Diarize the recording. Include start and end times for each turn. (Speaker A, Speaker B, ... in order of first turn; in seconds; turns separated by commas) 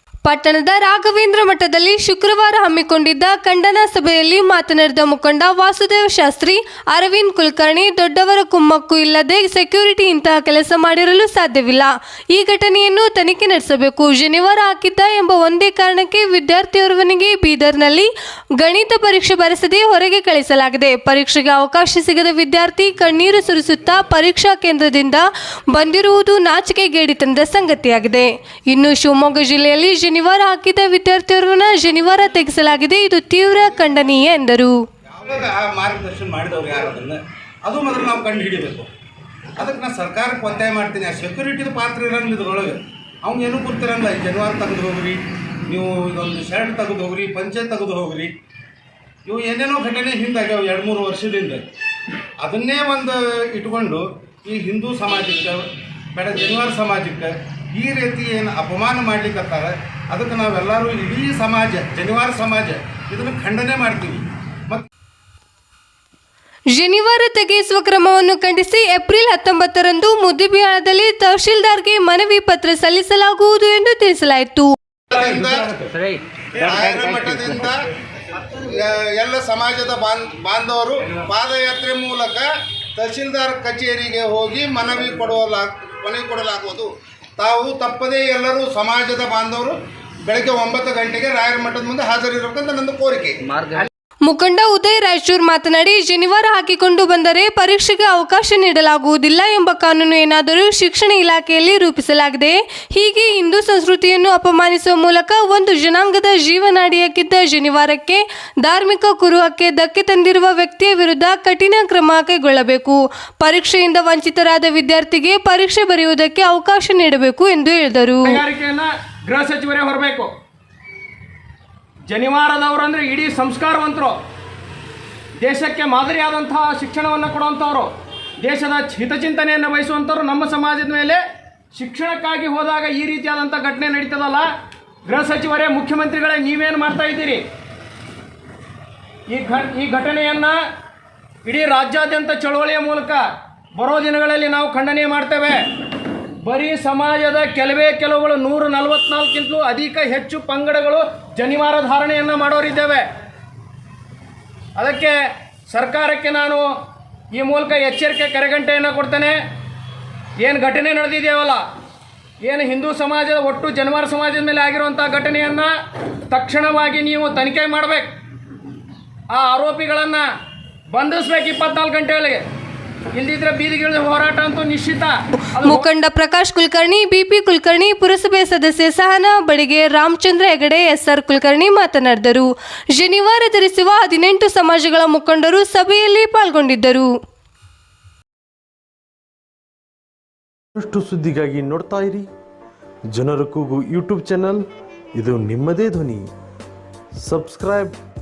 Speaker A: 0.2-34.7, Speaker B: 35.1-38.9, Speaker B: 39.6-48.3, Speaker B: 49.2-51.6, Speaker B: 52.4-64.9, Speaker A: 66.7-74.7, Speaker B: 75.1-75.9, Speaker B: 76.5-77.8, Speaker B: 78.4-93.7, Speaker A: 94.2-118.4, Speaker C: 118.2-120.3, Speaker C: 122.1-124.2, Speaker C: 125.4-131.2, Speaker C: 131.7-134.5, Speaker C: 135.1-137.4, Speaker C: 139.3-140.6, Speaker C: 141.4-153.1, Speaker C: 154.8-156.7, Speaker C: 157.3-159.4, Speaker C: 160.4-161.6, Speaker C: 162.4-165.7, Speaker C: 166.3-168.1, Speaker C: 169.3-170.3, Speaker C: 170.9-172.5, Speaker C: 173.1-175.8, Speaker A: 175.6-187.1, Speaker D: 190.8-192.3, Speaker D: 193.1-196.2, Speaker D: 197.2-197.9